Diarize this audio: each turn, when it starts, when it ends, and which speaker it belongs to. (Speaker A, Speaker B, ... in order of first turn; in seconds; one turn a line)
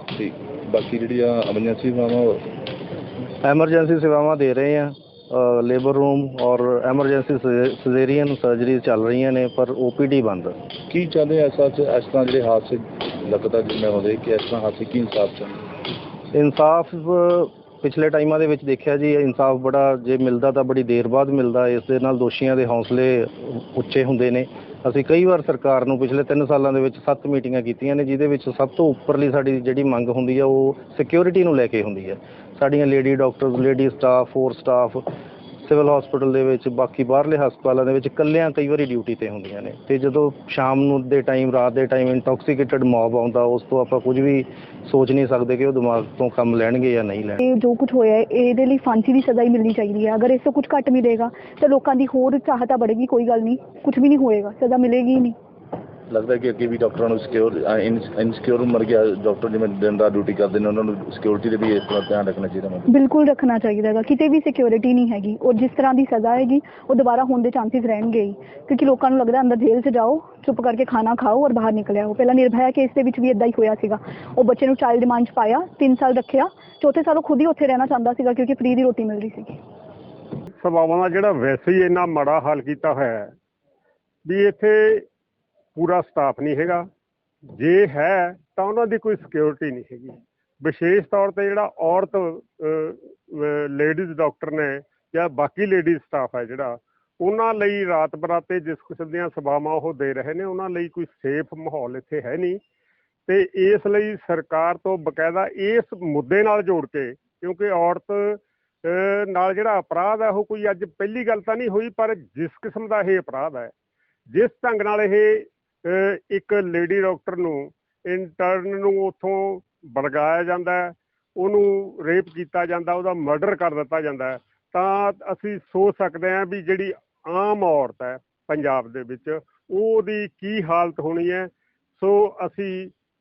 Speaker A: 0.1-2.4
Speaker B: 3.4-10.6
Speaker A: 10.9-15.6
Speaker B: 16.3-35.1
Speaker B: 35.6-47.4
Speaker C: 47.4-55.3
Speaker A: 56.1-62.9
Speaker C: 62.9-79.6
Speaker D: 80.5-83.3
Speaker D: 84.2-85.1
Speaker D: 85.7-86.9
Speaker D: 87.5-102.6
Speaker D: 103.3-113.7
Speaker D: 114.3-132.9